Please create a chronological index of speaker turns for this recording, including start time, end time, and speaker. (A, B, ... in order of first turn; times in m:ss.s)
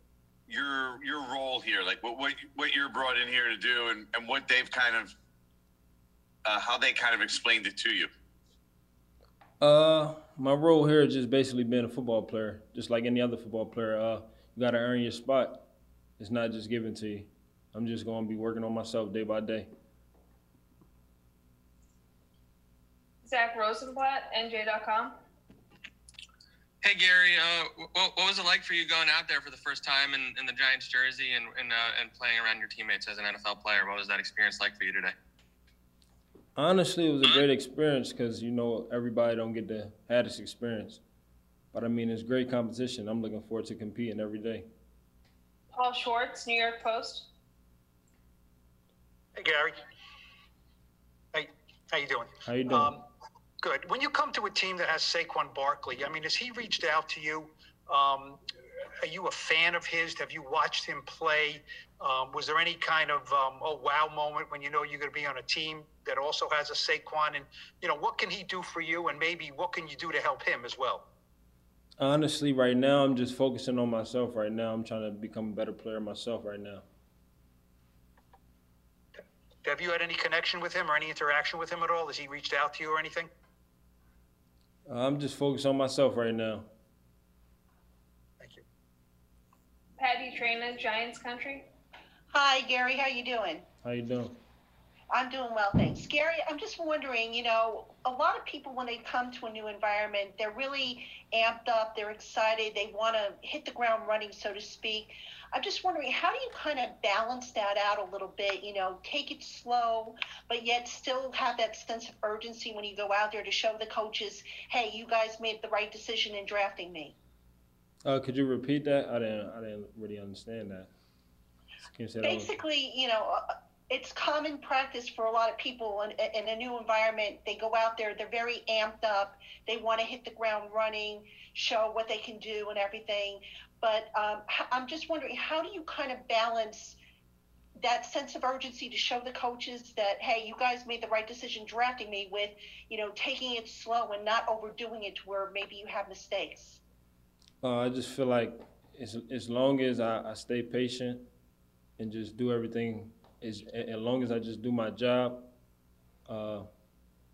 0:00.5-0:05.2 A
0:06.4-0:08.1 A
0:09.6-0:15.7 B
0:16.2-0:19.7 B
0:23.2-0:25.2 C
0:26.8-0:35.2 D
0:36.6-0:41.0 B
0:41.7-0:44.7 B
0:45.7-0:47.3 C
0:49.4-0:49.7 E
0:51.3-0:53.0 E
0:52.4-0:53.0 B
0:53.6-0:58.4 E
0:59.0-1:11.0 E
1:12.0-1:16.8 B
1:19.2-1:23.3 E
1:24.9-1:26.7 B
1:30.0-1:31.7 C
1:32.3-1:33.7 F
1:33.8-1:34.4 B
1:35.1-1:57.2 F
1:58.1-2:00.9 B
2:01.8-2:02.6 B
2:02.2-2:17.0 F
2:17.8-2:26.8 F
2:27.6-2:31.3 B
2:32.0-2:35.5 B
2:36.3-2:36.7 B